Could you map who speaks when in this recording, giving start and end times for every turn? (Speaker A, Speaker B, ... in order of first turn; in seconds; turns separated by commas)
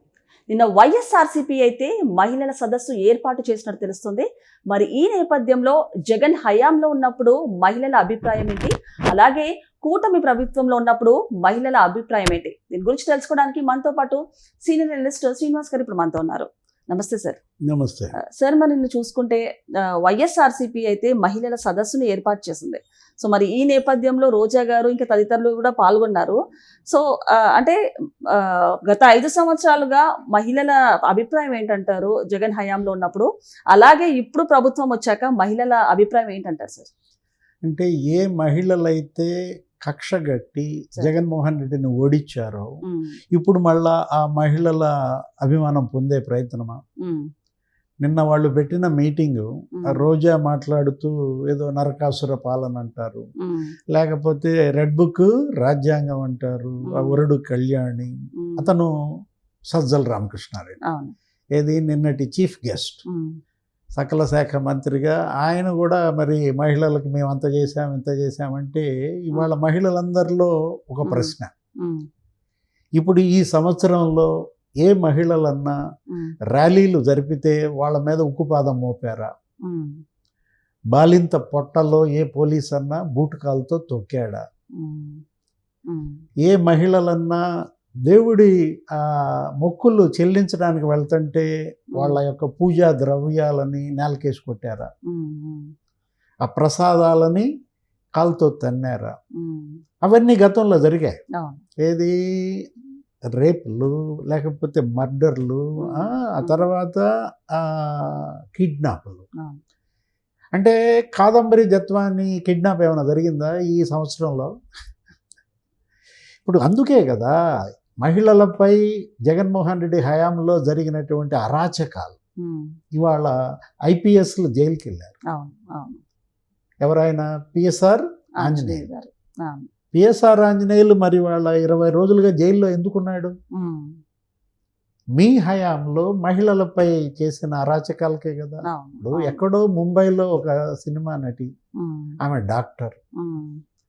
Speaker A: 0.5-17.4, Speaker B: 17.7-18.1, Speaker A: 18.2-19.4, Speaker A: 20.0-26.4, Speaker A: 26.9-27.8, Speaker A: 28.3-36.9, Speaker B: 37.6-39.3, Speaker B: 39.9-42.7, Speaker A: 42.9-43.2, Speaker B: 43.3-44.9, Speaker B: 45.4-46.8, Speaker A: 47.0-47.3, Speaker B: 48.0-53.3, Speaker A: 49.8-50.0, Speaker A: 53.4-53.7, Speaker B: 53.9-58.9, Speaker A: 56.9-57.2, Speaker A: 58.4-58.7, Speaker B: 59.7-60.8, Speaker A: 60.9-61.1, Speaker B: 61.5-63.0, Speaker A: 63.1-63.4, Speaker B: 64.0-71.5, Speaker A: 71.0-72.0, Speaker B: 73.0-74.3, Speaker B: 74.8-75.8, Speaker B: 76.5-79.3, Speaker A: 79.7-80.0, Speaker B: 80.9-84.4, Speaker A: 84.8-85.2, Speaker A: 85.9-86.2, Speaker B: 86.4-87.4, Speaker B: 88.1-94.9, Speaker A: 95.1-95.7, Speaker B: 96.4-97.5, Speaker B: 98.2-99.1, Speaker A: 99.4-99.8, Speaker B: 100.0-101.2, Speaker A: 101.4-101.6, Speaker B: 101.8-102.7, Speaker B: 103.3-109.2, Speaker A: 105.8-106.6, Speaker B: 110.5-114.5, Speaker B: 116.4-117.3, Speaker B: 118.0-122.1, Speaker A: 122.4-122.7, Speaker B: 122.9-123.3, Speaker B: 123.9-125.1, Speaker A: 125.3-126.0, Speaker B: 126.8-128.8, Speaker A: 128.4-129.7, Speaker B: 129.9-133.3, Speaker A: 133.5-134.0, Speaker B: 135.1-141.5, Speaker A: 138.6-139.4, Speaker A: 141.8-142.2, Speaker B: 142.2-142.9, Speaker A: 143.2-143.6